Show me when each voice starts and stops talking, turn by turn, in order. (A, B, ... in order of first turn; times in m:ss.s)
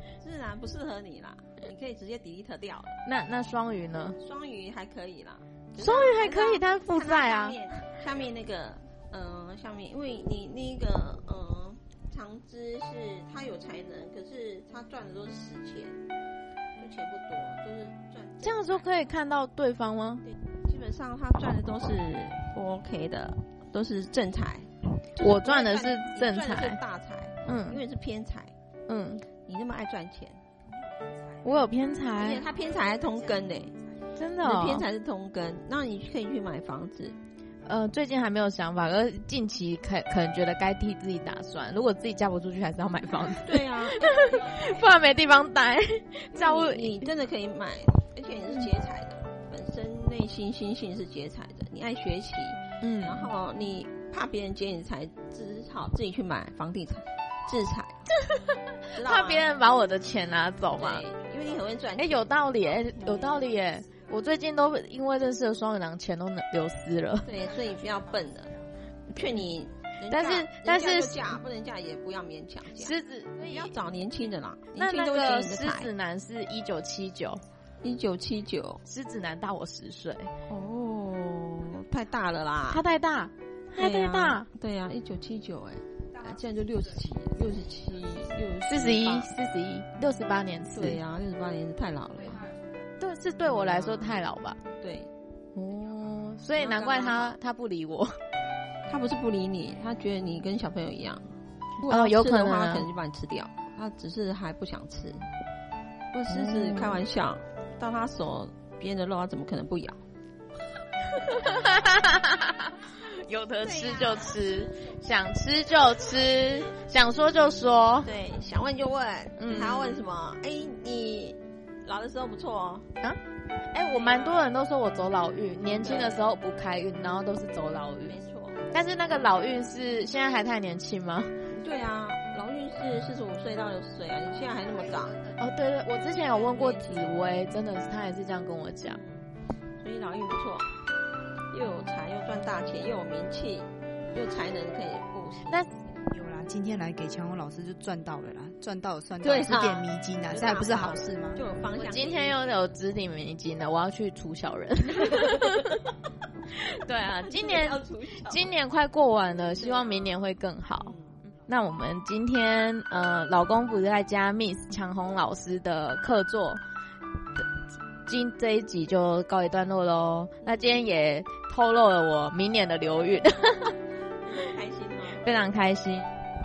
0:00.2-0:03.0 A
0:03.0-0:04.2 B
0:04.2-0:16.0 A
0:05.8-0:07.6 B
0:16.8-0:18.9 A
0:18.4-0:20.2 B
0:20.5-0:28.5 A
0:25.1-0:26.8 B
0:27.4-0:27.8 B
0:28.9-0:29.2 B
0:29.4-0:30.4 A
0:31.4-0:32.5 B
0:32.2-0:33.8 A
0:34.2-0:34.8 B
0:34.4-0:37.2 A
0:37.6-0:47.1 B
0:43.3-0:44.8 A
0:46.3-0:58.1 A
0:52.8-0:53.3 B
0:58.2-1:01.0 B
0:58.9-0:59.5 A
1:00.7-1:02.2 A
1:02.0-1:07.4 B
1:02.9-1:03.4 A
1:07.2-1:08.6 A
1:09.1-1:15.9 A
1:10.1-1:11.4 B
1:12.8-1:13.8 B
1:14.7-1:17.4 B
1:17.8-1:18.8 A
1:18.8-1:20.3 B
1:20.5-1:22.8 A
1:22.7-1:24.5 B
1:23.8-1:29.3 A
1:28.6-1:31.0 B
1:30.7-1:32.5 A
1:33.0-1:34.6 B
1:33.6-1:34.2 A
1:34.8-1:35.1 A
1:35.5-1:38.2 B
1:36.5-1:37.4 A
1:38.9-1:45.3 A
1:41.8-1:42.9 B
1:46.1-1:50.0 A
1:46.3-1:47.0 B
1:51.1-1:58.1 B
1:53.6-1:54.4 A
1:58.0-2:02.9 A
1:59.4-2:00.0 B
2:03.7-2:08.2 B
2:03.8-2:04.4 A
2:05.7-2:06.2 A
2:08.0-2:08.6 A
2:08.7-2:11.3 B
2:11.5-2:15.3 A
2:15.4-2:19.0 B
2:16.4-2:17.2 A
2:18.8-2:19.3 A
2:19.8-2:20.7 A
2:21.5-2:26.0 A
2:26.1-2:31.4 C
2:29.2-2:32.4 A
2:31.8-2:35.8 B
2:34.9-2:35.9 A
2:36.5-2:46.6 B
2:37.2-2:38.5 A
2:39.6-2:40.1 A
2:48.0-2:53.8 B
2:50.4-2:50.8 A
2:54.2-2:55.2 A
2:55.1-2:56.1 B